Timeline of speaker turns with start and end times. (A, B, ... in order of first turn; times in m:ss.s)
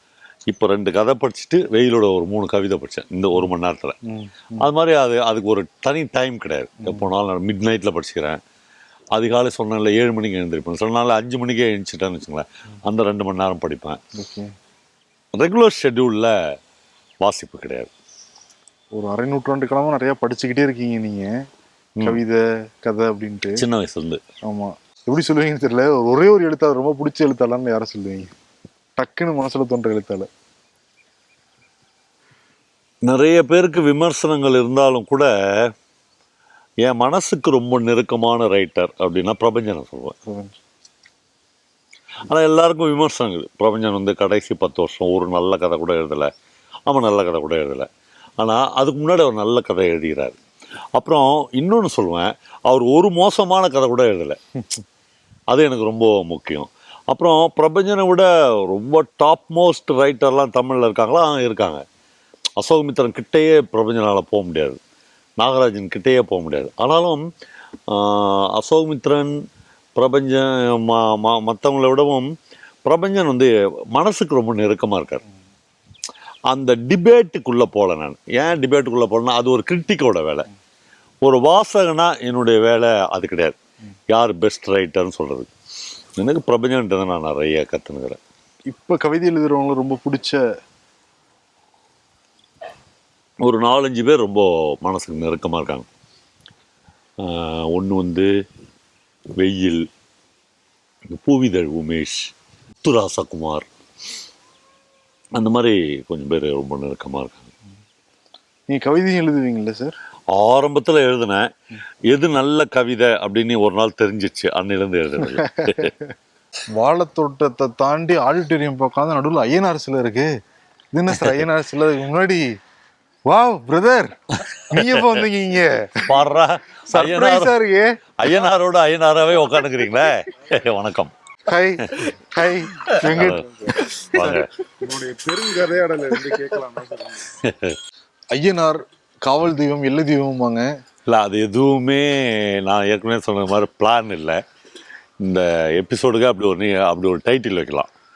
0:00.5-0:04.0 A
0:04.0-0:04.7 B
0:04.6-0:08.4 A
0:06.8-0:07.1 B
0:09.1-0:14.0 A
0:14.1-0:14.5 B
0:15.3-0:16.3 A
0:17.2-0:17.9 A
0:18.9-0:21.3 B
0:22.0-0:23.6 B
0:23.6-0:24.2 A
0:24.4-0:28.3 B
0:29.0-0:30.3 B
0:33.0-0:35.7 A
0:36.8-0:40.1 A
0:40.2-0:40.6 B
0:42.2-0:46.3 A
0:46.9-0:47.9 A
0:48.4-0:50.4 A
0:51.0-0:54.4 A
0:55.5-1:01.8 A
1:02.6-1:04.8 A
1:05.4-1:07.2 A
1:07.9-1:09.4 A
1:10.0-1:12.3 A
1:12.8-1:15.2 A
1:16.5-1:20.5 A
1:21.2-1:23.6 A
1:24.1-1:25.5 A
1:26.2-1:28.2 A
1:28.7-1:30.4 B
1:33.4-1:35.9 A
1:37.2-1:38.3 A
1:39.4-1:39.9 A
1:41.1-1:42.3 A
1:42.8-1:43.7 A
1:45.3-1:47.5 A
1:48.7-1:50.0 B
1:50.3-1:51.5 A
1:52.1-1:55.9 A
1:55.4-1:56.0 B
1:56.7-2:00.3 B
2:00.9-2:02.5 B
2:01.1-2:01.4 A
2:03.3-2:06.2 B
2:04.7-2:05.2 A
2:06.0-2:07.6 A
2:06.9-2:07.9 B
2:08.2-2:11.1 A
2:11.4-2:17.2 B
2:11.8-2:12.2 A
2:12.9-2:14.5 A
2:17.3-2:17.8 A
2:18.3-2:20.7 B
2:21.0-2:24.4 A
2:25.2-2:27.9 A